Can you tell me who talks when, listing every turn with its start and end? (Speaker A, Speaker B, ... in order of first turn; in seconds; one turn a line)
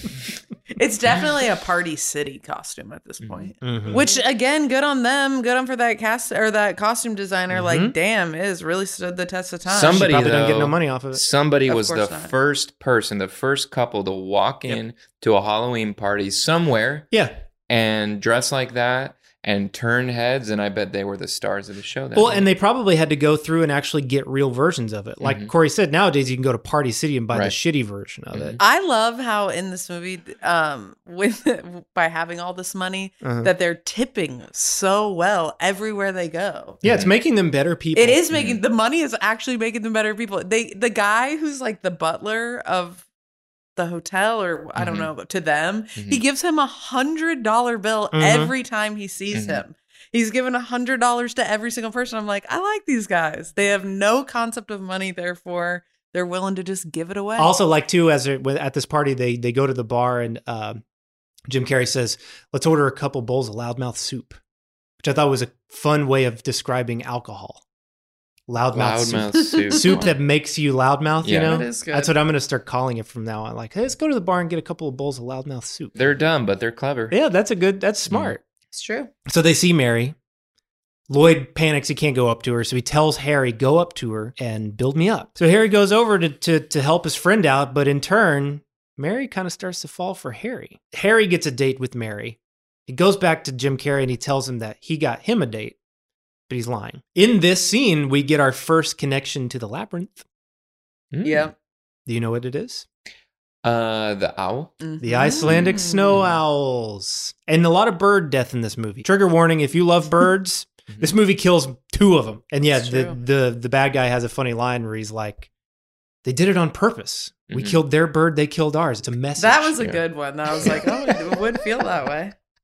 Speaker A: 0.7-10.0
Speaker B: 3.2-4.0
Speaker C: 3.6-4.0
Speaker C: 7.5-8.0
Speaker B: 9.7-17.1
Speaker C: 9.9-11.2
Speaker A: 11.7-12.3
Speaker B: 17.7-22.5
Speaker C: 22.1-28.6
Speaker B: 25.2-25.5
Speaker B: 28.3-28.6
Speaker A: 28.6-36.8
Speaker C: 33.2-33.5
Speaker C: 36.8-38.2
Speaker B: 36.8-37.1
Speaker A: 37.9-43.0
Speaker B: 38.3-38.6
Speaker A: 43.8-57.5
Speaker B: 44.8-45.1
Speaker B: 46.0-46.2
Speaker C: 48.1-48.5
Speaker B: 49.3-49.6
Speaker C: 57.4-60.8
Speaker C: 61.5-64.4
Speaker C: 65.0-67.6
Speaker C: 68.5-75.9
Speaker B: 68.7-70.1
Speaker A: 69.6-70.0
Speaker B: 71.2-71.7
Speaker A: 71.3-72.1
Speaker B: 75.9-77.2
Speaker C: 77.1-78.4
Speaker B: 78.1-78.3
Speaker A: 78.7-79.1
Speaker C: 79.3-80.2
Speaker C: 81.1-95.8
Speaker C: 96.5-100.2
Speaker B: 101.1-101.5
Speaker A: 101.2-101.5
Speaker C: 102.0-102.9
Speaker B: 103.6-104.8
Speaker A: 104.8-106.2
Speaker C: 105.0-115.5
Speaker B: 105.4-106.3
Speaker A: 112.7-113.2
Speaker C: 116.2-120.0
Speaker B: 117.5-117.8
Speaker A: 119.4-122.3